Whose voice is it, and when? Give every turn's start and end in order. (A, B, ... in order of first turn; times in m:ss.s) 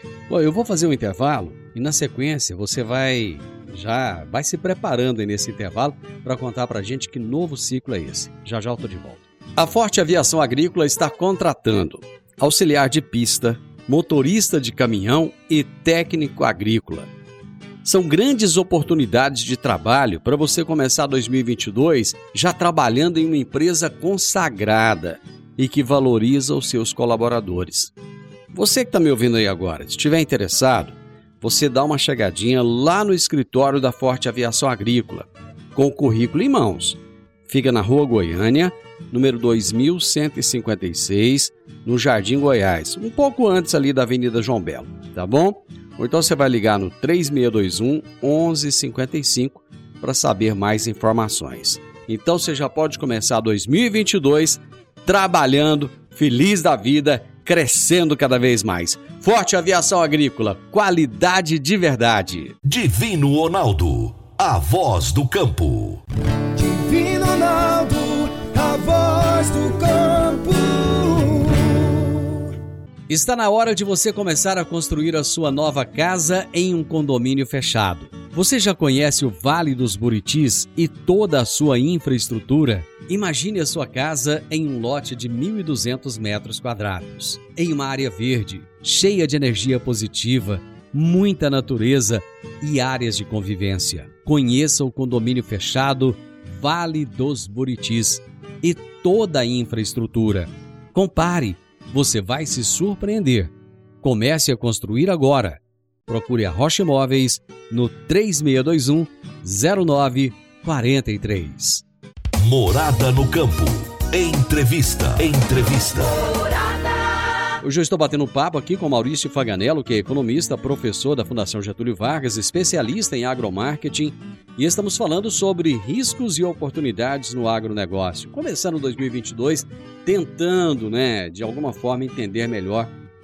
0:00.3-0:17.1 A
0:17.8-0:27.9 A
0:28.5-1:02.5 A
1:02.6-1:06.0 B
1:06.5-1:12.3 C
1:13.1-1:51.8 A
1:52.4-1:56.2 B
1:57.6-2:12.9 A